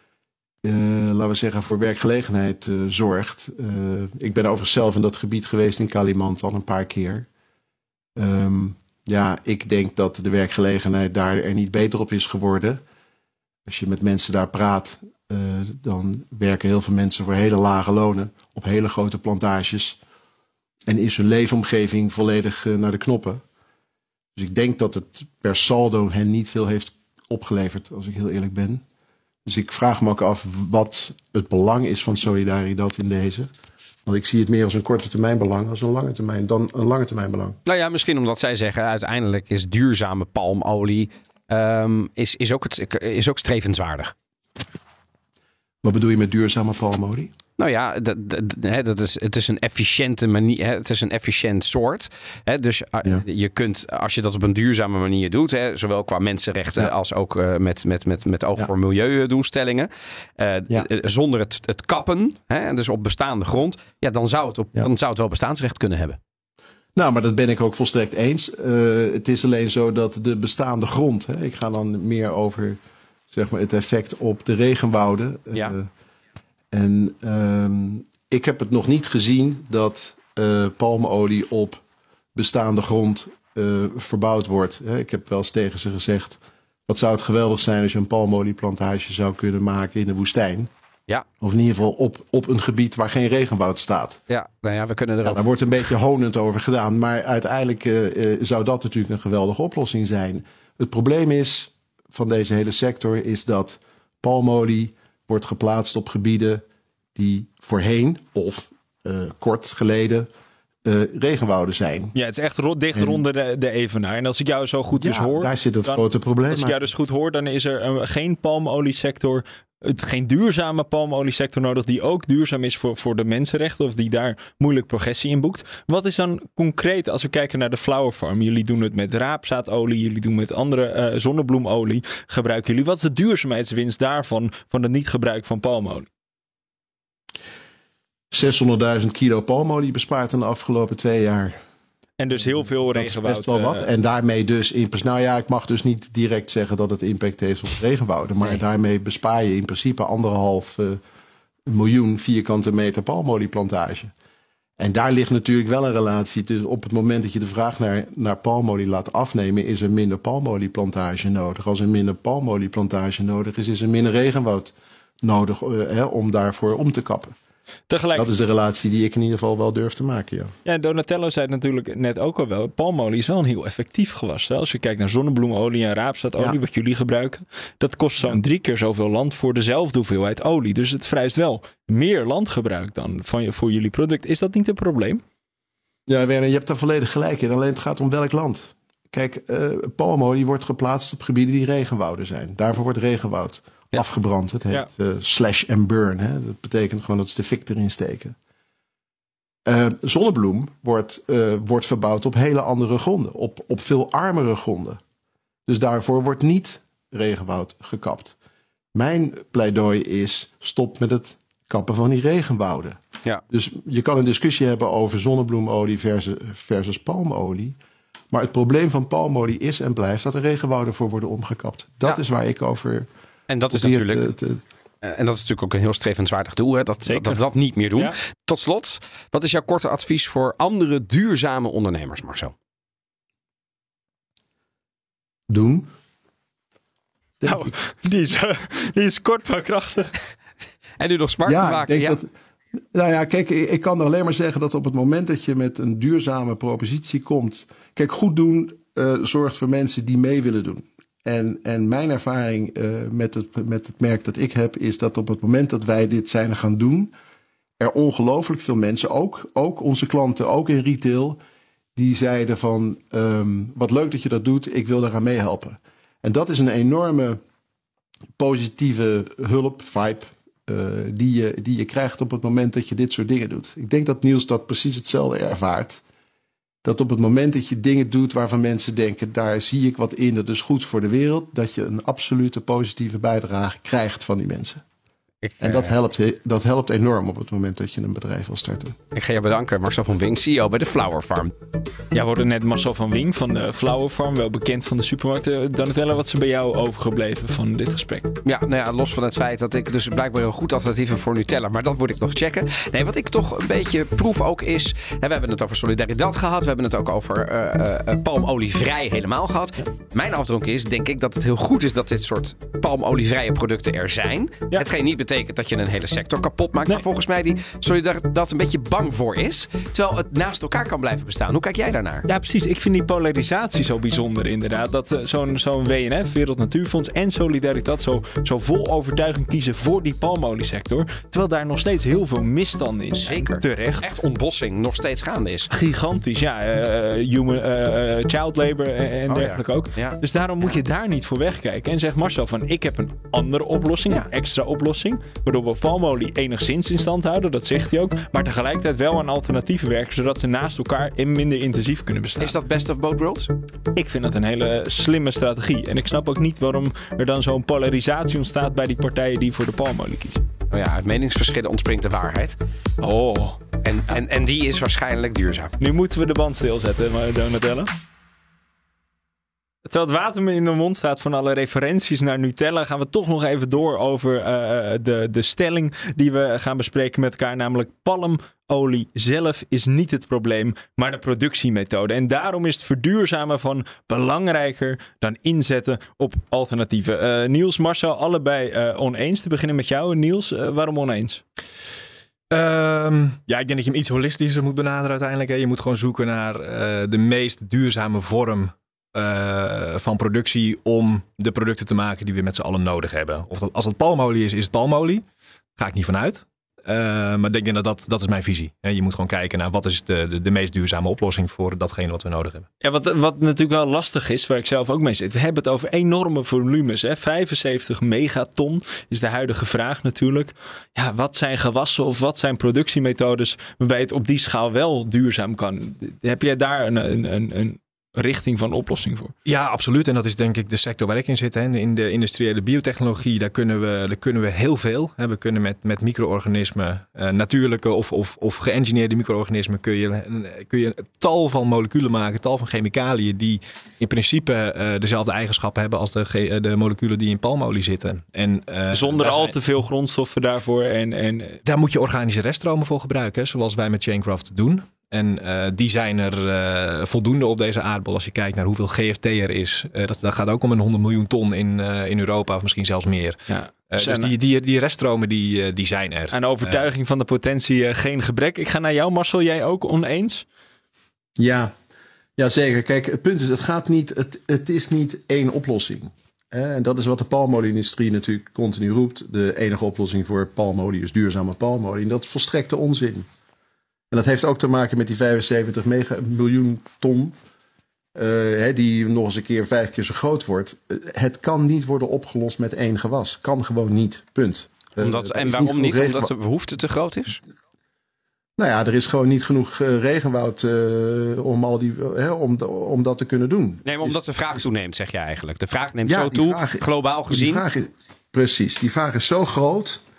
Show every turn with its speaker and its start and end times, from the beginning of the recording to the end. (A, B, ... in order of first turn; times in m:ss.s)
0:00.6-0:07.3 A
0:08.2-0:12.8 A
0:13.6-0:20.0 A
0:20.9-0:23.4 A
0:24.4-0:28.8 A
0:29.4-0:33.5 A
0:34.0-0:37.6 A
0:37.6-0:44.1 B
0:45.8-0:47.3 A
0:47.6-1:06.2 B
1:06.9-1:12.8 A
1:13.3-1:15.9 A
1:16.7-1:21.8 A
1:22.3-1:30.7 A
1:31.4-1:34.2 A
1:34.3-1:35.4 B
1:35.2-1:46.6 A
1:47.1-1:50.3 A
1:50.8-1:52.1 A
1:52.1-2:16.1 C
1:52.9-1:53.2 A
1:54.9-1:56.9 A
2:18.3-2:21.6 A
2:22.2-2:23.8 C
2:22.4-2:31.0 A
2:31.7-2:34.1 A
2:34.8-2:47.3 A
2:47.9-2:48.3 C
2:48.1-2:50.5 A
2:50.6-3:05.2 C
3:06.1-3:18.3 A
3:19.6-3:25.0 A
3:25.7-3:28.3 A
3:28.9-3:37.8 A
3:38.3-3:43.1 A
3:43.5-3:44.3 B
3:43.7-3:44.6 A
3:45.0-3:52.5 B
3:47.0-3:47.4 C
3:55.5-3:55.9 A
3:57.4-3:57.7 A
3:57.5-4:00.1 C
4:01.0-4:02.2 B
4:01.4-4:02.3 A
4:02.9-4:17.1 A
4:17.8-4:21.4 A
4:22.0-4:27.4 A
4:28.4-4:36.0 A
4:36.8-4:44.8 A
4:45.4-4:45.9 B
4:45.6-4:49.0 A
4:49.1-4:51.5 B
4:52.1-4:58.3 C
4:58.4-5:22.2 B
5:22.3-5:34.0 C
5:33.1-5:35.7 B
5:35.7-5:52.6 C
5:39.3-5:40.2 B
5:52.4-5:53.5 B
5:53.9-6:00.4 C
6:00.7-6:02.6 B
6:03.0-6:03.6 C
6:03.8-6:05.8 B
6:05.8-6:07.9 C
6:09.8-6:31.4 C
6:32.5-6:45.2 D
6:45.8-6:52.7 D
6:52.8-7:09.3 C
7:09.4-7:29.5 D
7:28.9-7:31.6 C
7:31.6-7:46.9 D
7:43.5-7:44.3 C
7:46.3-7:50.4 C
7:51.4-7:51.7 A
7:52.4-8:03.3 A
8:04.1-8:07.3 A
8:08.1-8:16.3 A
8:15.0-8:17.4 B
8:18.6-8:24.6 A
8:23.8-8:27.6 B
8:26.0-8:30.0 A